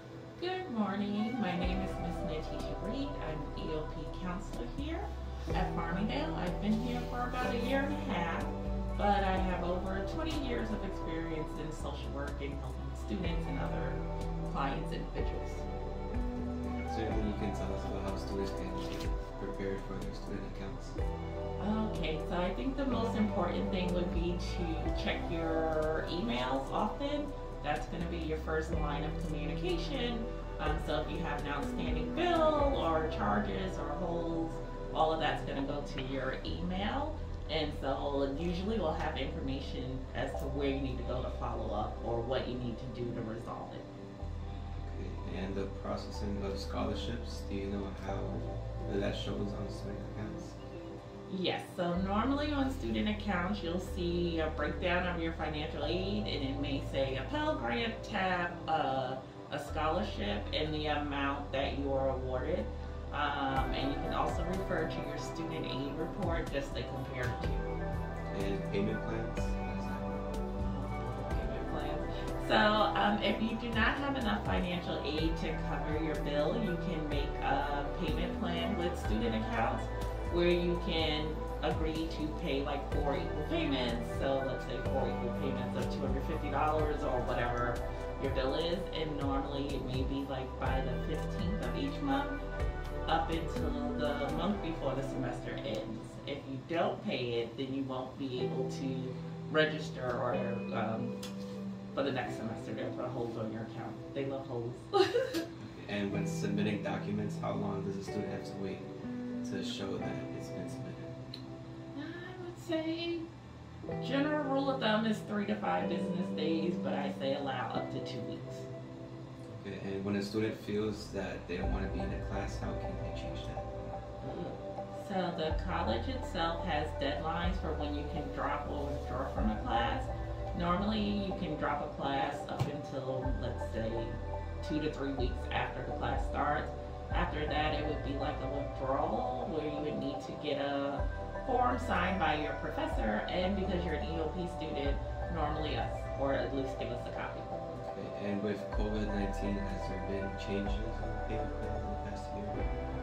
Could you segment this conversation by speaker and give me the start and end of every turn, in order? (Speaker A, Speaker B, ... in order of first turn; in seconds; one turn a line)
Speaker A: 0.4-15.6
Speaker B: 16.6-21.0
Speaker A: 21.6-43.9
Speaker B: 44.8-50.6
Speaker A: 51.3-67.7
Speaker B: 68.3-70.2
Speaker A: 70.6-92.4
Speaker A: 93.1-101.2
Speaker A: 101.9-105.4
Speaker B: 105.6-108.9
Speaker B: 109.4-111.1
Speaker A: 111.9-113.3
Speaker A: 114.0-118.7
Speaker B: 119.5-123.8
Speaker A: 124.2-147.5
Speaker B: 147.8-152.7